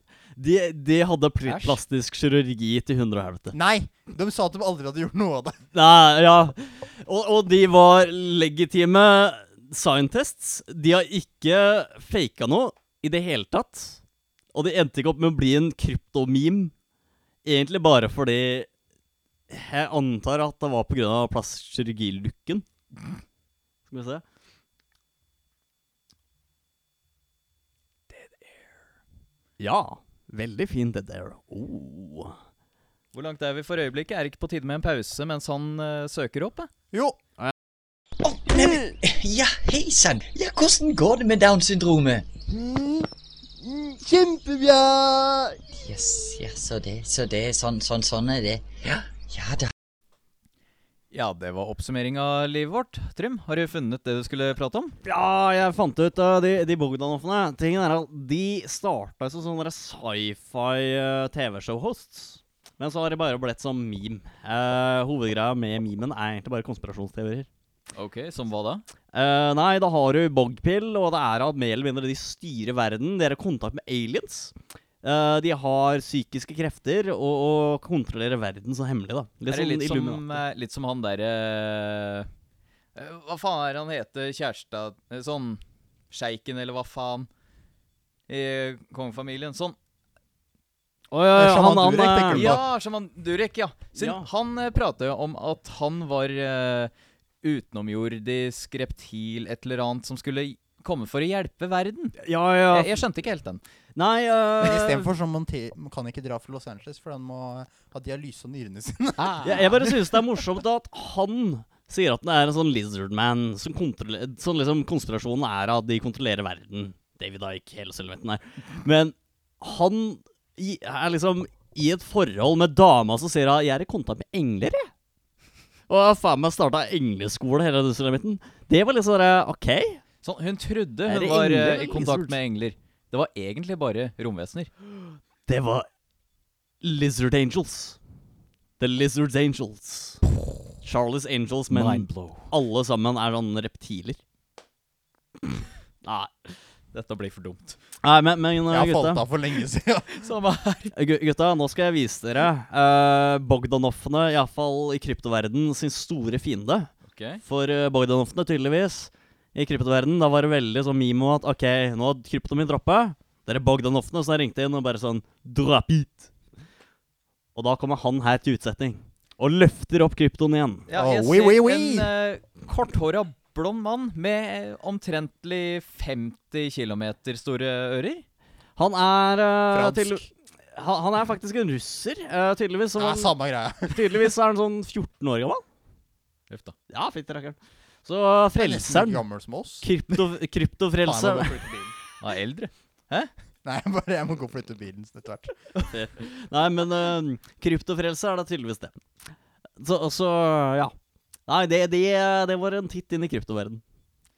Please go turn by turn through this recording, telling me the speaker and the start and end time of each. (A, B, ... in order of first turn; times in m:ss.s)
0:00.4-0:03.5 A
0:01.4-0:01.8 B
0:03.5-0:05.6 C
0:05.7-0:14.0 A
0:14.5-0:16.7 A
0:17.4-0:18.7 A
0:19.5-0:22.7 A
0:23.9-0:24.2 A
0:28.1-0:28.5 B
0:29.6-0:32.4 A
0:33.1-0:36.7 B
0:36.9-0:37.2 C
0:38.2-0:42.3 D
0:42.5-0:43.1 C
0:43.6-0:45.6 C
0:45.7-0:49.7 D
0:51.1-0:55.0 B
0:55.0-1:07.5 A
1:08.0-1:08.8 B
1:09.1-1:20.4 A
1:19.5-1:22.3 B
1:23.0-1:27.3 B
1:28.3-1:29.8 B
1:31.1-1:32.6 A
1:31.4-1:32.6 C
1:32.3-1:36.9 B
1:34.0-1:34.3 A
1:37.4-1:43.6 B
1:42.2-1:43.0 A
1:44.0-1:45.1 A
1:44.6-1:50.2 C
1:49.2-1:49.8 B
1:49.4-2:04.9 A
2:05.9-2:10.0 A
2:10.2-2:14.7 B
2:11.1-2:12.4 A
2:15.5-2:15.9 A
2:16.8-2:18.0 A
2:18.8-2:20.2 A
2:20.8-2:24.2 A
2:21.7-2:22.5 B
2:26.0-2:26.3 A
2:26.9-2:27.8 B
2:28.0-2:29.2 A
2:28.7-2:30.2 C
2:30.2-2:30.9 B
2:30.9-2:36.9 A
2:37.0-2:37.4 B
2:37.4-2:46.3 A
2:47.6-2:50.9 A
2:50.9-2:58.2 B
2:51.0-2:52.1 C
2:58.8-3:05.6 A
2:59.7-3:00.3 C
3:03.0-3:04.3 C
3:06.5-3:06.8 B
3:06.9-3:09.2 A
3:08.6-3:09.9 C
3:09.8-3:11.7 A
3:11.0-3:11.9 C
3:12.2-3:13.3 B
3:13.6-3:15.5 C
3:15.8-3:19.0 A
3:19.8-3:20.9 A
3:21.5-3:23.8 A